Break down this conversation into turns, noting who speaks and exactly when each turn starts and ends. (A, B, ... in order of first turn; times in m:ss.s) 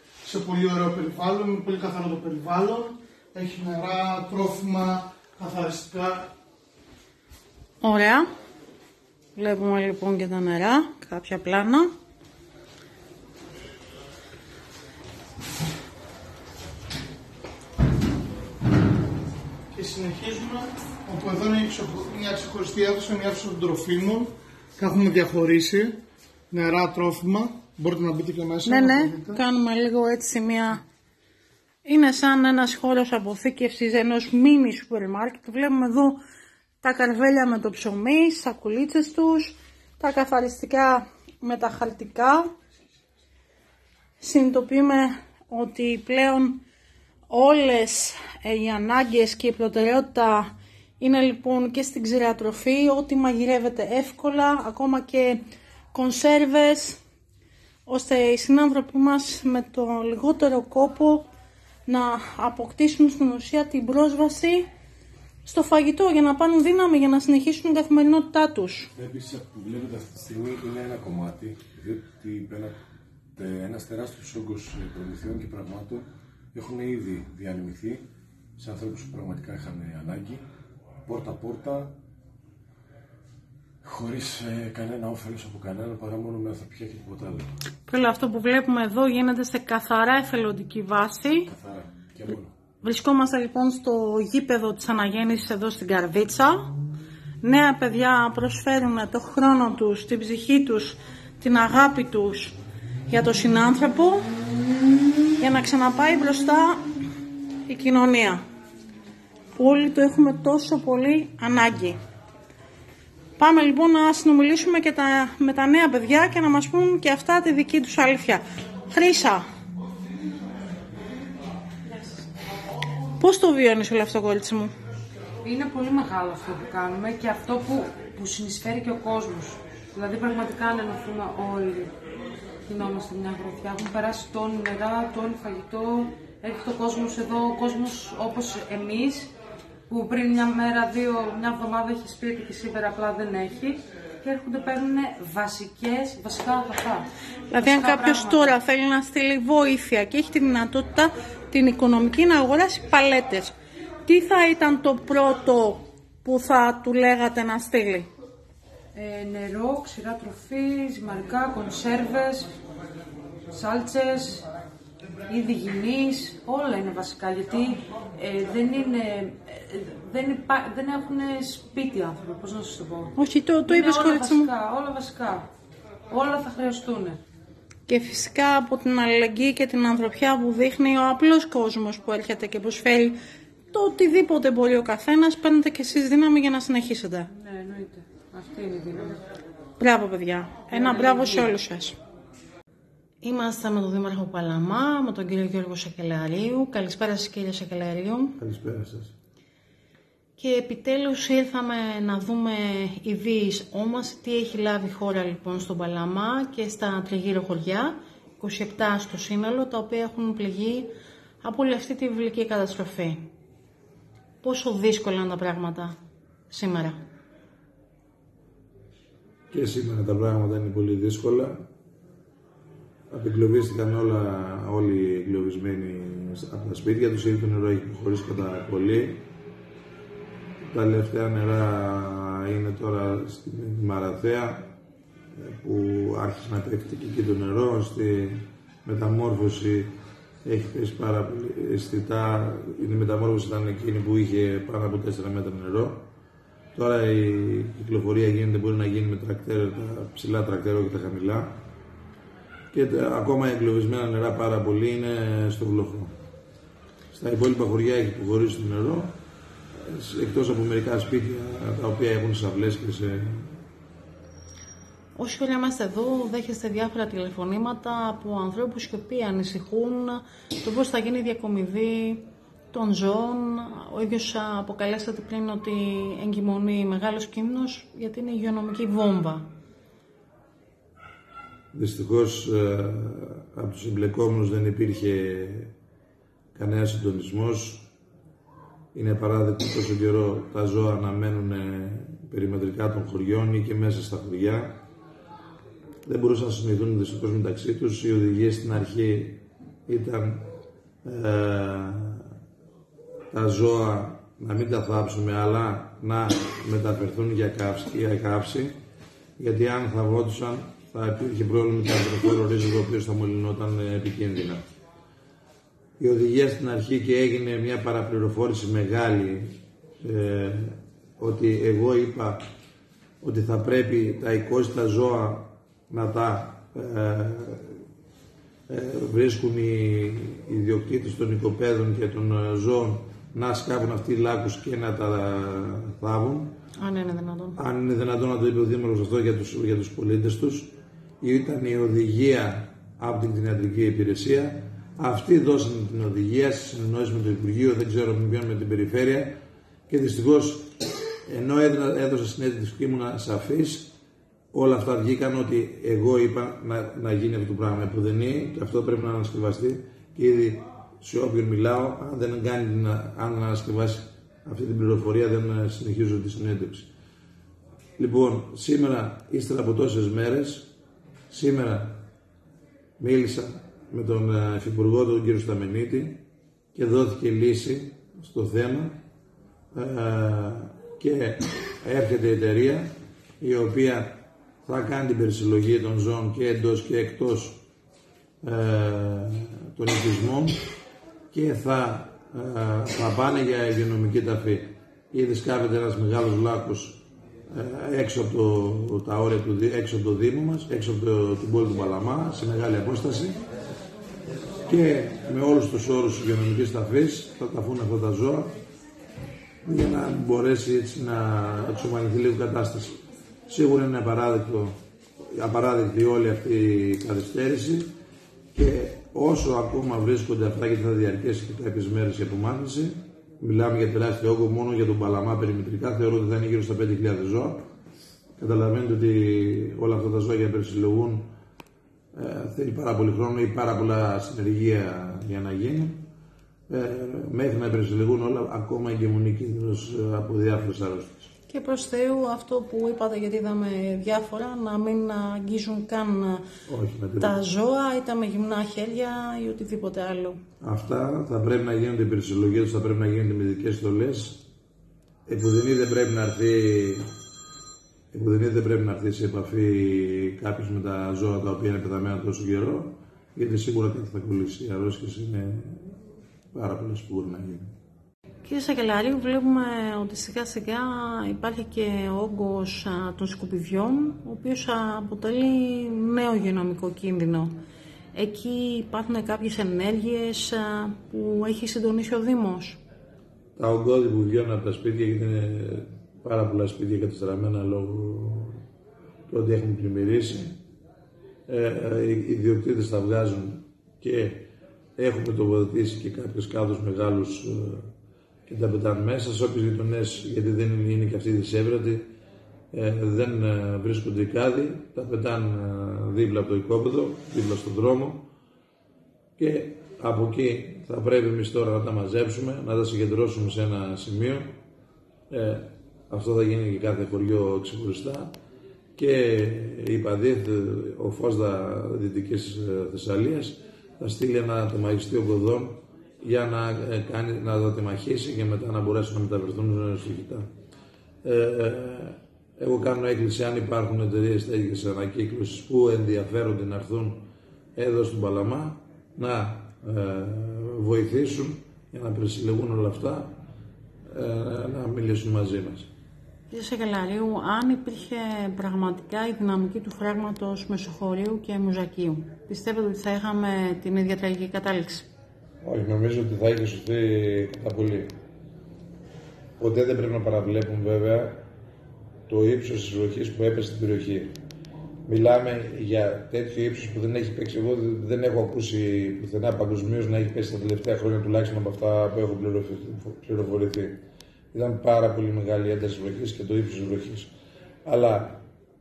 0:00.2-0:06.3 A
0:07.8-0:08.3 B
0:09.4-0:11.9 B
0:19.7-0:26.0 A
0:26.5-0:29.4 A
0:28.6-0:30.8 B
0:31.8-0:36.2 B
0:36.8-0:42.5 B
0:44.2-0:46.6 B
0:47.3-0:55.4 B
0:55.9-0:57.0 B
0:57.9-1:01.2 B
1:01.9-1:04.6 B
1:05.4-1:08.9 B
1:09.0-1:12.7 C
1:13.4-1:18.0 C
1:18.6-1:20.4 C
1:21.1-1:21.9 C
1:23.8-1:27.4 C
1:27.9-1:31.5 B
1:31.5-1:32.5 C
1:32.8-1:36.7 B
1:37.4-1:42.6 B
1:43.1-1:44.2 B
1:45.4-1:46.8 B
1:47.7-1:48.4 B
1:49.6-1:52.0 B
1:53.4-1:59.4 B
2:03.2-2:04.7 B
2:05.4-2:11.9 D
2:12.7-2:19.3 D
2:19.9-2:28.5 D
2:27.5-2:33.5 B
2:34.0-2:38.1 B
2:38.9-2:42.5 D
2:43.5-2:44.5 D
2:45.3-2:53.1 D
2:53.2-2:54.5 B
2:53.7-2:55.5 D
2:56.1-2:57.2 D
2:57.9-3:03.2 B
3:03.7-3:07.3 B
3:07.3-3:09.2 D
3:09.8-3:12.0 B
3:10.7-3:11.5 D
3:13.2-3:18.4 B
3:18.4-3:19.1 E
3:20.4-3:30.9 B
3:31.4-3:33.2 B
3:34.4-3:35.9 B
3:36.5-3:37.0 B
3:39.5-3:41.6 E
3:43.1-3:49.2 E
3:50.6-3:54.7 E
3:55.4-4:06.1 E
4:06.7-4:11.6 E
4:12.7-4:16.1 E
4:17.1-4:19.2 E
4:19.7-4:23.6 E
4:25.2-4:39.5 B
4:41.7-4:45.7 E
4:46.5-4:47.9 E
4:48.9-4:54.8 E
4:56.0-5:00.5 E
5:01.0-5:02.3 E
5:03.3-5:08.7 E
5:09.4-5:14.6 E
5:16.0-5:22.4 E
5:23.2-5:27.8 E
5:28.7-5:36.5 E
5:36.8-5:37.6 B
5:37.6-5:49.4 E
5:49.9-5:50.7 E
5:51.3-5:53.9 E
5:54.5-6:06.9 E
6:08.0-6:10.7 E
6:11.3-6:12.0 E
6:13.0-6:16.2 E
6:16.7-6:19.0 E
6:19.7-6:27.6 E
6:28.4-6:30.6 E
6:31.3-6:43.4 E
6:44.7-6:48.5 E
6:49.6-6:53.0 E
6:53.5-6:54.7 E
6:55.3-6:57.9 E
6:58.5-7:07.7 E
7:08.4-7:11.3 E
7:12.1-7:16.1 E
7:16.7-7:21.3 E
7:21.5-7:26.4 B
7:26.7-7:27.4 E
7:27.2-7:30.4 B
7:30.6-7:34.4 E
7:35.3-7:37.1 E
7:38.1-7:46.0 E
7:46.5-7:47.7 E
7:48.4-7:57.5 B
7:58.1-8:02.8 B
8:03.6-8:08.6 E
8:09.3-8:10.6 E
8:11.5-8:17.9 E
8:18.5-8:22.1 E
8:22.7-8:28.3 E
8:29.4-8:34.5 E
8:35.3-8:38.4 E
8:39.0-8:50.5 E
8:51.2-9:03.4 E
9:04.1-9:05.9 E
9:06.5-9:15.1 B
9:15.6-9:18.1 E
9:19.6-9:21.4 E
9:22.3-9:24.4 E
9:25.1-9:37.3 E
9:37.8-9:38.4 E